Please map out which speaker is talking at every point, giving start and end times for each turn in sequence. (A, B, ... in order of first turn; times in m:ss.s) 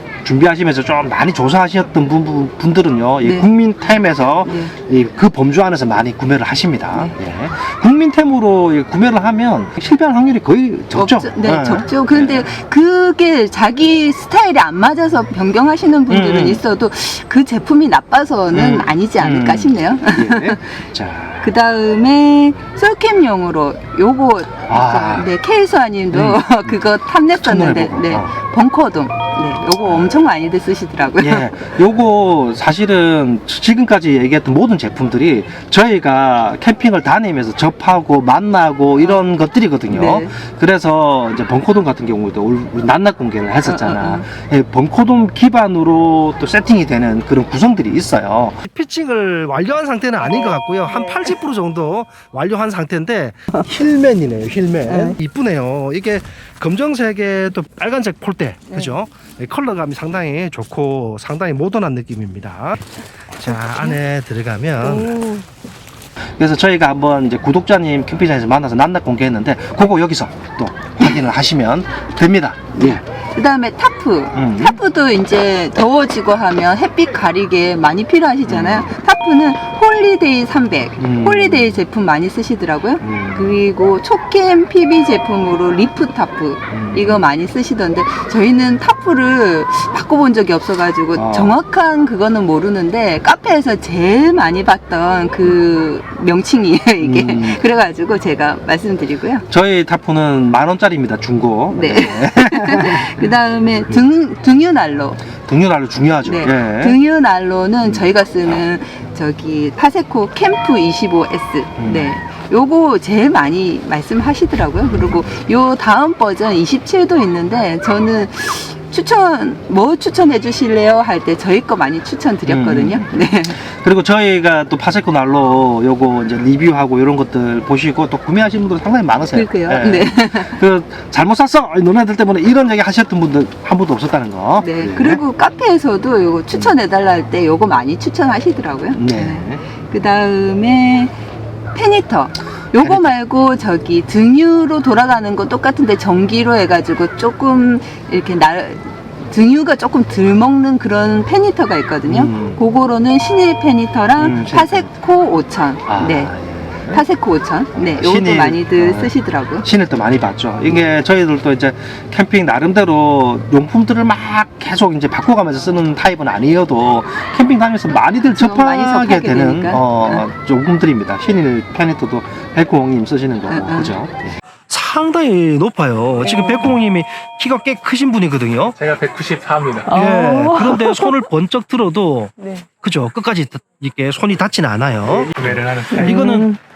0:00.2-0:12.5 A
0:04.4-0:04.7 B
0:10.9-0:20.8 B
0:16.1-0:16.6 A
0:18.5-0:21.5 A
0:21.4-0:31.6 B
0:24.7-0:25.3 A
0:26.1-0:26.7 A
0:27.3-0:28.4 A
0:29.8-0:30.2 A
0:31.2-1:02.9 A
0:39.9-0:40.3 B
0:43.6-0:44.2 B
1:03.4-1:05.4 A
1:06.4-1:13.0 A
1:12.7-1:39.4 B
1:14.3-1:14.8 A
1:18.4-1:18.9 A
1:21.0-1:21.8 A
1:23.0-1:23.6 A
1:26.7-1:27.2 A
1:31.1-1:31.6 A
1:37.0-1:37.6 A
1:39.5-1:43.1 A
1:41.7-1:45.2 B
1:45.4-1:47.0 A
1:46.2-2:03.6 B
1:47.8-1:48.6 A
1:51.8-1:52.2 A
1:54.8-1:55.4 A
2:02.5-2:15.2 A
2:09.3-2:10.6 B
2:14.6-2:21.1 B
2:18.9-2:19.6 A
2:21.7-2:36.3 B
2:22.8-2:23.1 A
2:32.0-2:32.6 A
2:34.2-2:34.9 A
2:35.8-2:37.0 A
2:36.9-2:39.6 B
2:37.8-2:58.8 A
2:48.3-2:50.2 B
2:53.5-2:53.9 B
2:56.3-2:56.6 B
2:58.8-3:00.0 C
2:59.9-3:01.1 B
2:59.9-3:06.6 A
3:05.1-3:06.3 C
3:06.0-3:06.6 B